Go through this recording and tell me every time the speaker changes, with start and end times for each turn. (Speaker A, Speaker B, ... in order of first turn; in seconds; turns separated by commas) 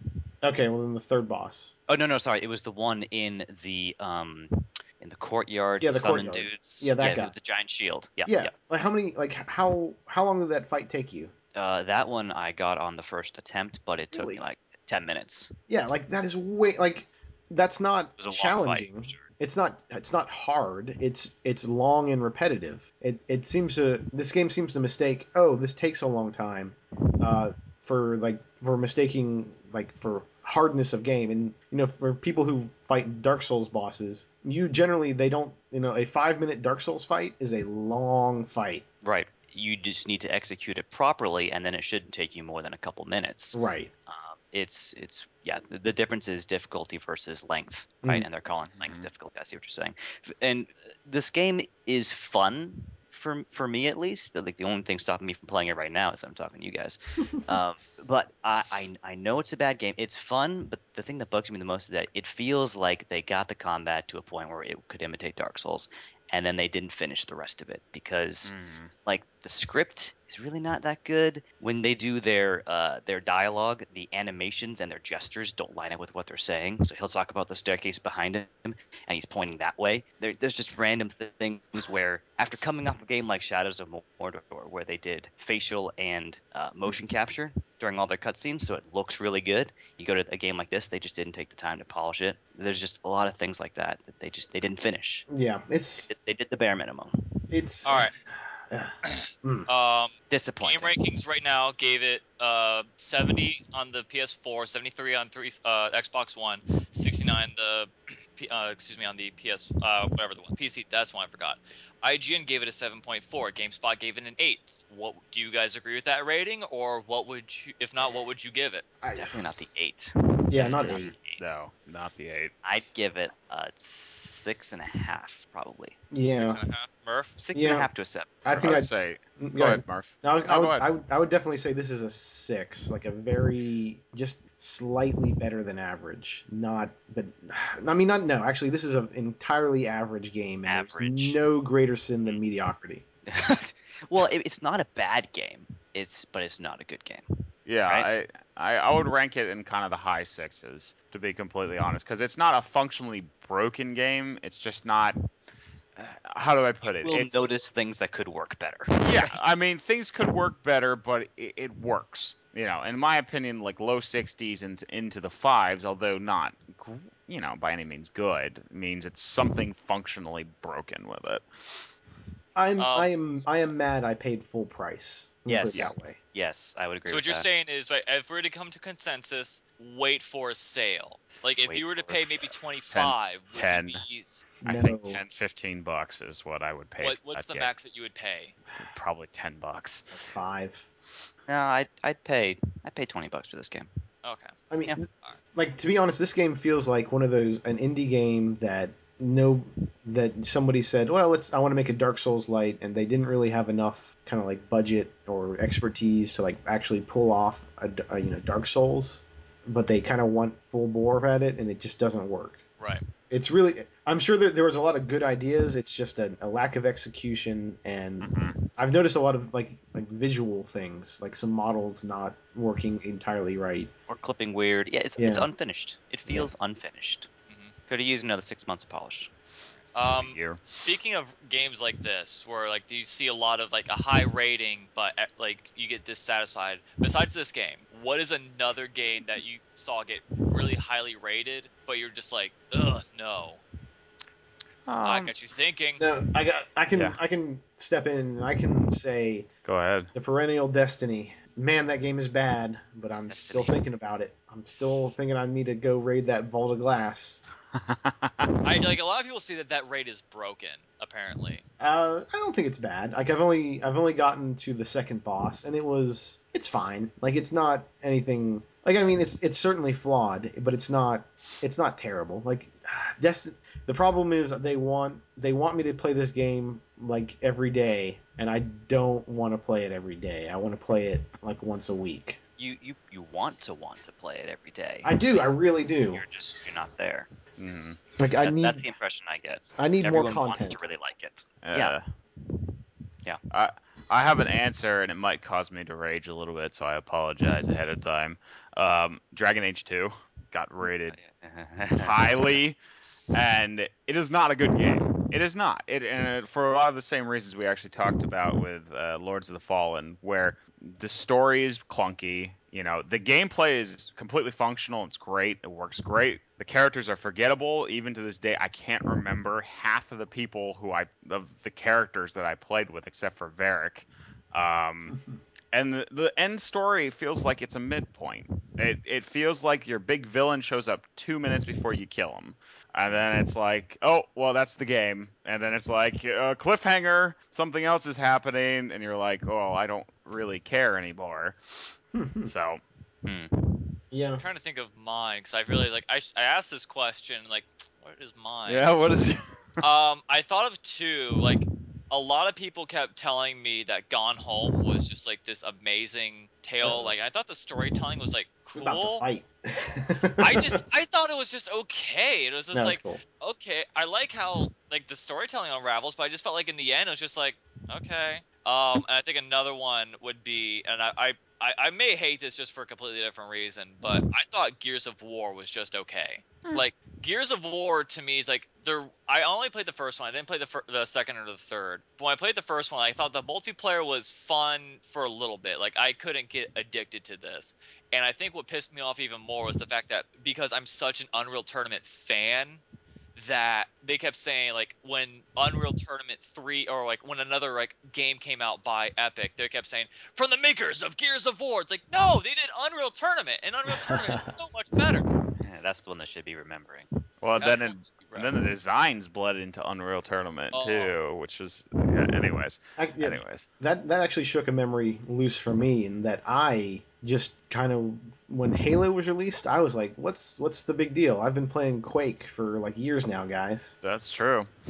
Speaker A: 0.4-1.7, Speaker B: 1.9-8.5, Speaker A: 5.8-7.3, Speaker A: 8.2-11.3, Speaker B: 11.5-15.5, Speaker A: 14.1-14.4, Speaker A: 15.7-38.8, Speaker B: 18.2-19.2, Speaker B: 39.0-68.5, Speaker A: 43.5-43.9, Speaker C: 48.7-49.1, Speaker C: 68.4-68.9, Speaker B: 69.0-95.3, Speaker A: 95.3-96.1, Speaker B: 96.0-97.1, Speaker A: 97.5-99.7, Speaker D: 97.8-98.1, Speaker D: 99.0-118.8, Speaker B: 100.3-101.0, Speaker A: 119.0-119.4, Speaker B: 119.2-120.0, Speaker A: 120.5-121.1, Speaker B: 120.5-121.4, Speaker C: 120.8-122.5, Speaker B: 122.6-126.0, Speaker A: 126.1-126.6, Speaker D: 126.3-127.3, Speaker B: 127.4-128.5, Speaker A: 127.5-127.9, Speaker A: 128.4-143.0, Speaker C: 128.5-130.8, Speaker B: 140.7-141.4, Speaker B: 143.3-147.2, Speaker C: 147.7-155.2, Speaker C: 156.0-157.4, Speaker B: 156.8-159.4, Speaker C: 159.0-171.9, Speaker A: 172.6-176.2, Speaker D: 172.8-173.1, Speaker B: 175.4-177.4, Speaker D: 177.1-184.5, Speaker B: 181.7-182.5, Speaker C: 182.9-184.0, Speaker A: 184.6-185.2, Speaker C: 184.6-187.7, Speaker D: 187.0-188.6, Speaker C: 188.8-190.1, Speaker A: 190.1-190.8, Speaker B: 191.5-193.9, Speaker D: 194.2-194.5, Speaker A: 194.7-212.6, Speaker A: 213.3-223.9, Speaker C: 218.2-218.6, Speaker B: 224.1-227.3, Speaker A: 225.2-225.5, Speaker D: 227.5-227.7, Speaker B: 227.9-229.3, Speaker D: 229.9-243.6, Speaker C: 230.0-230.6, Speaker C: 244.8-245.3, Speaker D: 245.0-246.0, Speaker A: 246.0-249.5, Speaker C: 249.6-250.1, Speaker A: 250.1-257.4, Speaker B: 253.3-253.8, Speaker C: 257.7-258.6, Speaker D: 258.6-261.6, Speaker A: 261.8-282.4, Speaker B: 282.6-285.5, Speaker A: 285.0-286.2, Speaker B: 286.1-287.3, Speaker C: 287.6-288.0, Speaker A: 288.2-288.9, Speaker B: 288.4-291.9, Speaker A: 289.8-290.8, Speaker C: 291.6-292.1, Speaker C: 293.5-301.2, Speaker B: 300.8-302.6, Speaker C: 301.9-302.8, Speaker C: 303.3-325.2, Speaker C: 325.7-342.8, Speaker A: 342.1-342.5, Speaker B: 343.2-343.5, Speaker A: 344.1-344.4, Speaker D: 344.4-348.9, Speaker C: 348.6-349.8, Speaker D: 349.8-359.2, Speaker A: 356.8-357.1, Speaker A: 358.8-360.8, Speaker D: 360.4-392.8, Speaker A: 362.7-363.2, Speaker D: 393.3-405.2, Speaker B: 405.6-407.1, Speaker C: 407.4-413.7, Speaker D: 407.6-408.5, Speaker D: 410.7-411.1, Speaker A: 413.0-423.9, Speaker C: 424.0-424.7